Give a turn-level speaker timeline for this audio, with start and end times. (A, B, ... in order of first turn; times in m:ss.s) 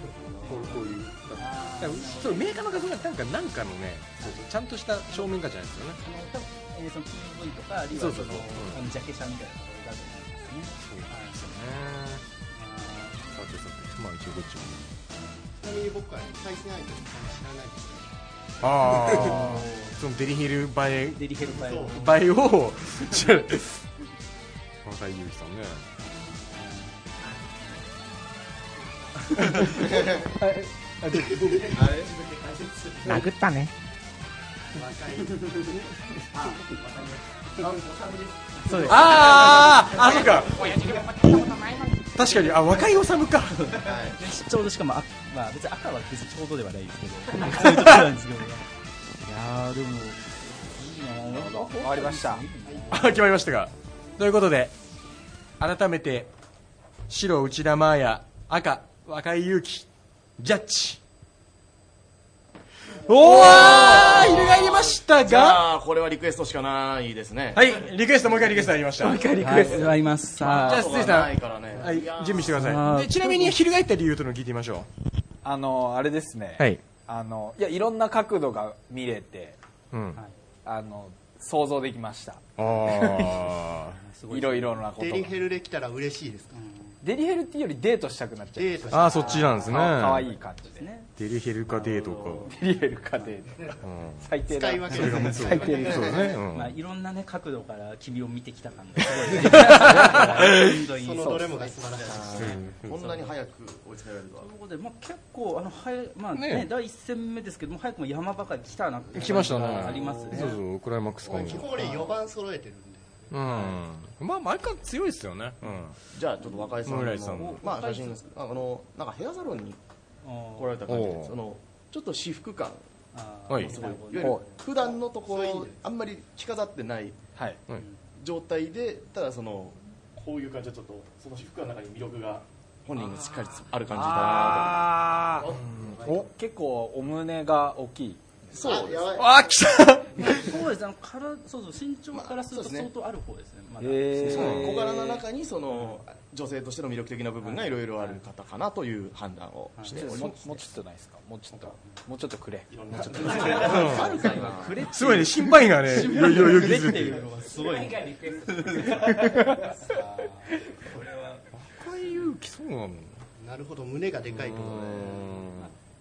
0:00.4-0:02.8 A
0:00.4-0:06.0 B
0:06.0-0:11.5 A
0:07.9-0:08.8 B
0:10.8-0:12.2 B
0:12.5-0:13.3 A
0:13.3-0:14.8 B
0:15.6-0:18.1 C
0:18.6-0:21.3 B
0:18.8-0:19.9 C
0:19.1-0:19.7 A
0:21.1-0:22.2 A
0:21.5-0:22.1 C
0:21.9-0:23.8 B
0:24.8-0:25.8 B
0:26.4-0:27.0 A
0:29.4-0:30.3 C
0:29.5-0:31.9 D
0:31.2-0:31.5 B
0:31.7-0:33.1 C
0:33.0-0:33.7 D
0:34.7-0:35.8 C
0:37.7-0:39.0 C
0:38.7-0:39.2 A
0:38.8-0:43.8 B
0:43.5-0:48.7 A
0:43.8-0:44.2 C
0:43.8-0:44.1 E
0:47.4-0:48.0 B
0:49.2-0:53.1 A
0:51.3-0:52.5 D
0:52.6-0:53.0 C
0:52.9-0:54.7 B
0:55.6-0:56.3 B
0:57.1-1:01.0 B
1:03.1-1:05.7 B
1:03.2-1:07.6 E
1:03.2-1:04.3 D
1:03.5-1:04.2 A
1:07.5-1:09.2 B
1:09.0-1:10.0 D
1:09.3-1:10.9 A
1:10.4-1:14.9 B
1:10.4-1:12.8 E
1:12.5-1:13.6 A
1:15.4-1:19.6 D
1:19.9-1:20.2 B
1:20.6-1:23.5 D
1:22.6-1:24.0 B
1:23.9-1:24.9 A
1:24.3-1:25.4 D
1:24.9-1:26.6 C
1:26.5-1:27.0 A
1:27.0-1:30.8 D
1:28.4-1:29.8 C
1:28.9-1:30.3 B
1:29.1-1:31.1 A
1:31.2-1:32.5 B
1:31.7-1:32.5 A
1:32.4-1:36.2 D
1:33.8-1:34.3 B
1:34.5-1:36.4 C
1:34.9-1:36.7 B
1:35.2-1:43.1 A
1:39.3-1:40.8 B
1:39.8-1:40.5 D
1:40.1-1:42.7 C
1:41.2-1:41.6 D
1:42.0-1:44.5 E
1:42.3-1:43.2 B
1:44.4-1:50.6 A
1:46.3-1:46.7 B
1:49.1-1:51.9 B
1:49.6-1:50.2 E
1:51.2-1:53.3 C
1:51.3-1:51.8 E
1:51.4-1:52.1 A
1:53.3-1:56.0 B
1:53.4-1:53.8 A
1:56.1-1:59.8 E
1:56.4-1:58.4 A
1:56.8-1:57.6 B
2:00.2-2:00.8 A
2:00.6-2:02.8 E
2:00.9-2:01.4 B
2:03.1-2:04.6 A
2:03.5-2:03.8 B
2:03.5-2:07.2 E
2:04.2-2:04.5 D
2:04.5-2:05.8 C
2:07.7-2:08.0 A
2:08.2-2:14.9 E
2:13.9-2:18.3 D
2:15.4-2:16.2 C
2:15.5-2:16.3 B
2:18.5-2:19.2 E
2:18.5-2:19.7 C
2:19.2-2:20.2 D
2:19.2-2:20.3 B
2:20.2-2:24.6 A
2:22.1-2:22.9 E
2:23.8-2:25.2 D
2:24.2-2:30.6 E
2:24.2-2:24.9 B
2:27.4-2:28.2 A
2:29.8-2:30.2 A
2:29.9-2:32.7 D
2:31.5-2:31.9 A
2:32.7-2:34.9 E
2:32.9-2:41.4 A
2:33.2-2:34.3 C
2:33.6-2:34.2 B
2:34.9-2:37.2 B
2:39.3-2:39.6 D
2:41.5-2:43.2 B
2:43.4-2:45.5 C
2:44.3-2:45.7 B